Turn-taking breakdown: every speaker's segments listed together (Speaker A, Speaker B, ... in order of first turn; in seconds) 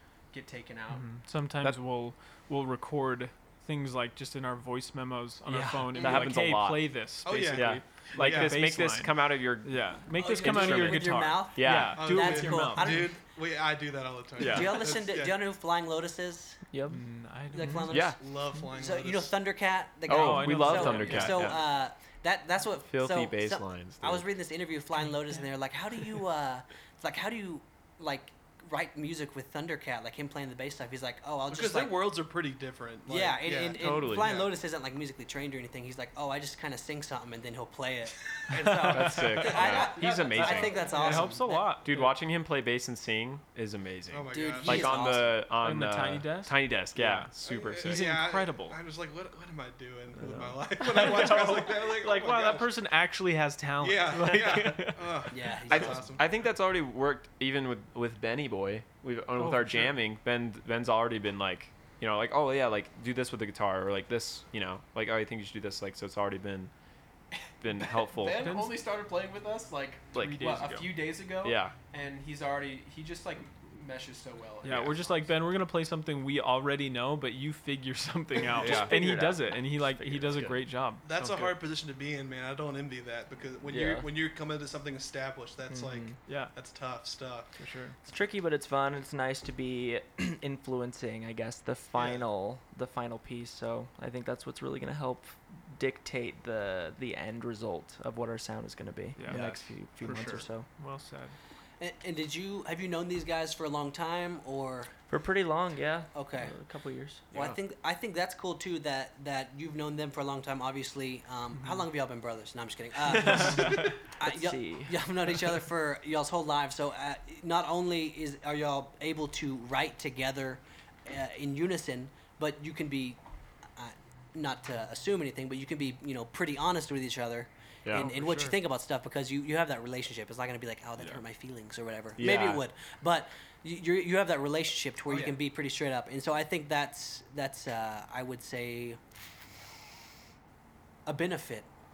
Speaker A: 0.3-1.2, 67.8-75.3
Speaker B: 0.9-13.1, 16.9-18.0, 20.1-21.5, 40.8-42.2, 45.5-48.8, 50.7-55.2, 59.4-59.9, 68.4-68.8, 70.2-70.9, 74.6-81.6, 86.3-86.5, 87.6-88.0, 99.2-101.3, 128.0-128.6
Speaker C: 5.5-12.2, 14.4-14.7, 17.9-18.2, 20.1-21.6, 22.9-24.3, 33.7-34.4, 38.9-48.2, 50.2-50.6, 55.7-66.7, 67.6-68.5, 70.1-70.5, 71.4-71.7, 74.7-75.1, 78.5-79.3, 80.0-80.6, 99.3-100.3, 107.3-107.6, 127.8-128.1, 132.2-132.6
Speaker D: 7.2-8.6, 11.9-15.3, 18.1-19.3, 31.5-34.5, 38.7-41.2, 44.1-45.2, 47.4-52.7, 53.8-56.2, 81.0-87.5, 92.0-92.2, 100.0-100.4, 135.1-135.3
Speaker E: 10.1-13.2, 14.4-16.6, 17.5-18.2, 18.7-32.0, 33.1-41.8, 44.3-45.4, 55.3-56.1, 101.8-104.9, 106.1-106.5, 107.3-123.2, 123.8-139.0, 141.1-141.7
Speaker F: 16.7-17.1, 78.6-79.6, 83.7-84.1, 85.7-86.2, 88.0-100.7, 105.1-107.3, 114.2-115.0